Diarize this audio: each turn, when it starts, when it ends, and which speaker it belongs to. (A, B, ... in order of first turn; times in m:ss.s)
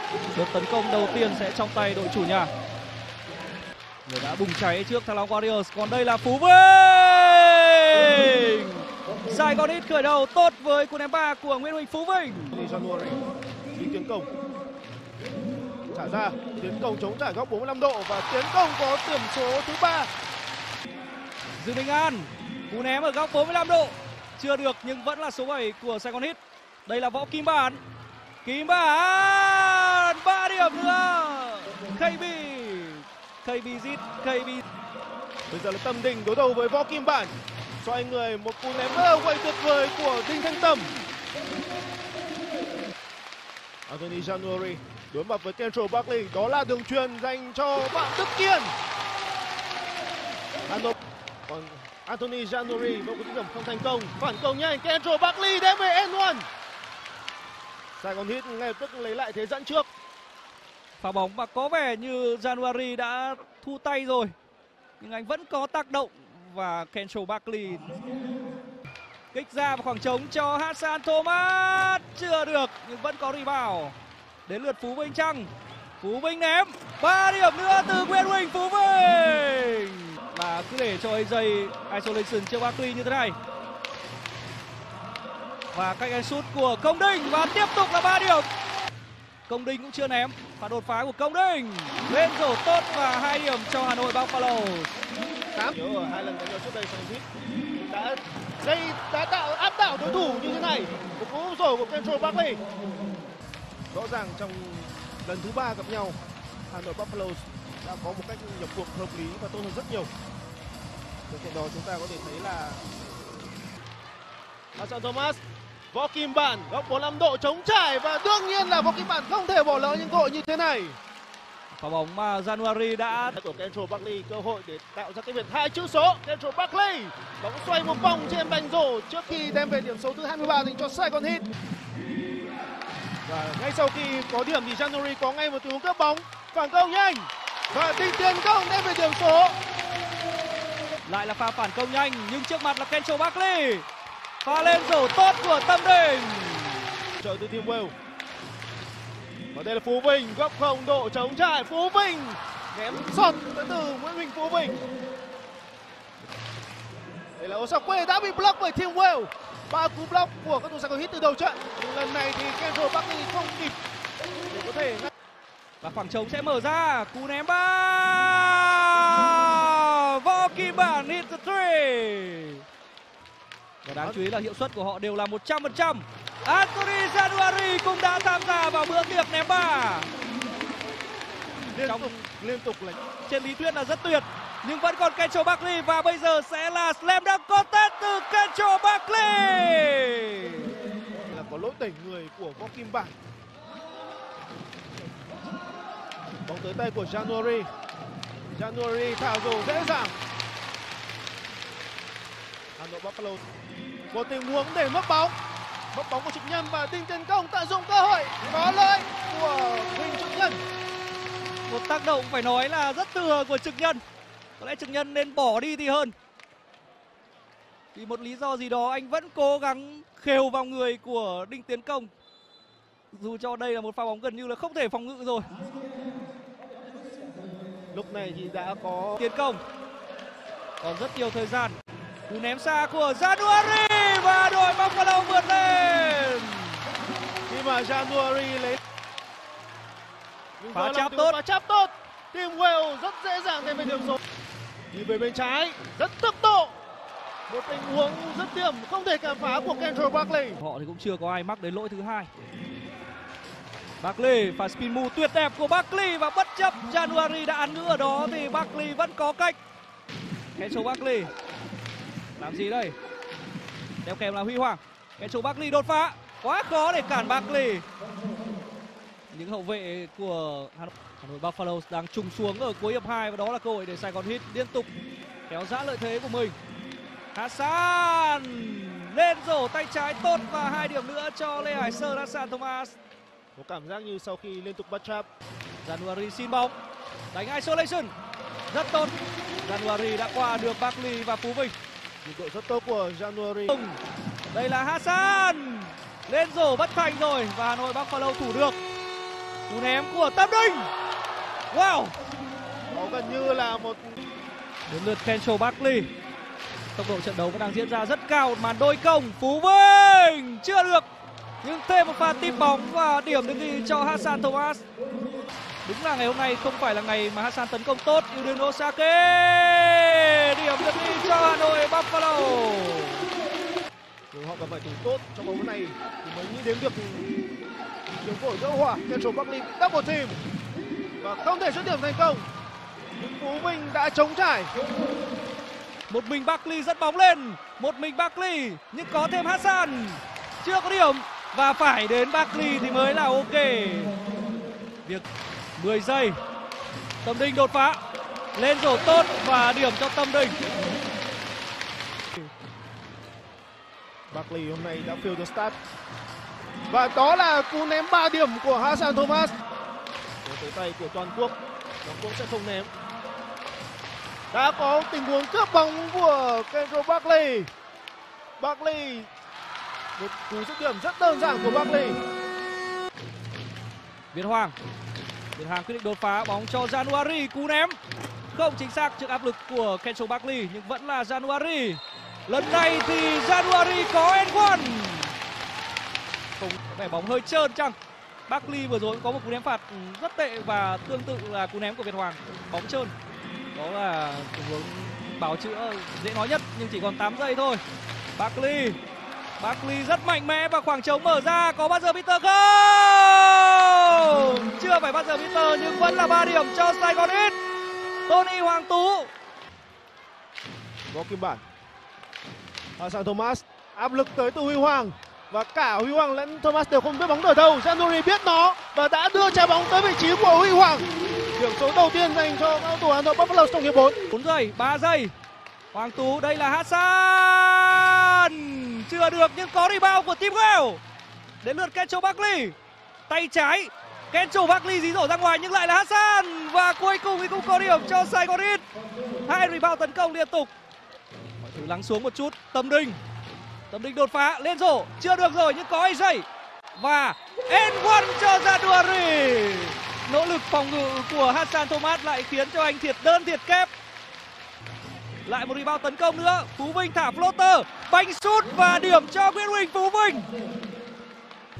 0:00.3-0:02.5 A
0:04.0-0:12.5 A
0:12.5-0:13.2 B
0:13.7-0:14.3 B
0:15.9-0:20.1 B
0:21.6-0:27.8 A
0:28.4-0:34.6 A
0:35.5-0:41.0 B
0:43.9-0:48.7 B
0:50.7-0:50.9 B
0:51.5-0:56.5 B
0:58.0-0:59.9 B
1:01.0-1:04.3 A
1:05.0-1:07.9 A
1:09.3-1:15.5 A
1:16.0-1:23.4 A
1:25.7-1:28.5 A
1:29.5-1:34.9 A
1:35.5-1:37.2 B
1:37.9-1:42.6 B
1:43.9-1:50.1 B
1:51.3-1:52.9 B
1:54.8-1:55.4 B
1:55.9-2:01.0 B
2:01.7-2:03.4 A
2:03.3-2:11.4 B
2:13.2-2:19.6 B
2:21.0-2:23.8 A
2:24.4-2:26.9 A
2:27.2-2:27.9 B
2:29.5-2:34.8 B
2:37.4-2:43.8 B
2:44.5-2:45.1 B
2:45.8-2:52.6 A
2:53.8-3:00.1 A
2:54.0-2:54.2 B
3:01.7-3:03.0 B
3:01.8-3:02.1 A
3:03.2-3:10.7 A
3:11.3-3:13.1 B
3:16.4-3:17.7 B
3:18.5-3:20.1 B
3:22.8-3:23.4 B
3:24.1-3:25.3 B
3:25.9-3:30.6 B
3:31.7-3:34.0 A
3:34.6-3:36.1 A
3:37.9-3:42.1 A
3:43.1-3:45.5 A
3:47.9-3:49.2 B
3:49.2-3:49.6 A
3:50.8-3:51.7 A
3:52.3-3:56.8 A
3:57.5-3:58.8 B
4:00.6-4:04.2 B
4:00.7-4:01.4 A
4:04.9-4:06.8 B
4:07.5-4:10.6 B
4:10.6-4:12.3 A
4:14.0-4:19.6 A
4:20.6-4:21.3 A
4:22.4-4:22.9 A
4:24.0-4:27.8 A
4:29.3-4:34.9 A
4:35.5-4:36.6 A
4:37.3-4:43.0 A
4:43.6-4:45.3 B
4:45.8-4:46.7 A
4:47.3-4:48.1 A
4:48.7-4:51.7 A
4:52.2-4:53.8 B
4:53.7-4:54.0 A
4:54.5-4:58.8 A
4:59.7-5:00.9 A
5:01.7-5:02.1 A
5:02.9-5:04.2 B
5:04.9-5:06.1 A
5:07.0-5:11.1 A
5:11.6-5:14.8 A
5:15.8-5:23.3 A
5:24.3-5:27.3 B
5:28.2-5:30.4 B
5:31.2-5:32.5 B
5:33.2-5:34.7 B
5:36.1-5:44.1 A
5:45.8-5:46.4 A
5:47.2-5:48.0 A
5:48.5-5:50.6 A
5:54.3-5:55.8 B
5:56.9-5:59.5 B
6:00.4-6:02.9 B
6:04.5-6:07.7 B
6:08.6-6:09.3 B
6:10.2-6:12.2 B
6:14.3-6:14.7 A
6:15.6-6:18.0 A
6:18.5-6:25.3 A
6:26.8-6:28.0 A
6:28.5-6:33.1 A
6:33.7-6:37.8 A
6:38.4-6:39.0 A
6:39.6-6:47.6 A
6:48.3-6:49.3 A
6:51.1-6:51.6 B
6:53.0-7:04.2 B
7:04.3-7:05.3 A
7:05.9-7:11.0 A
7:11.6-7:12.8 A
7:13.3-7:18.8 A
7:19.4-7:20.7 A
7:21.6-7:23.2 A
7:23.9-7:33.9 A
7:35.4-7:40.5 A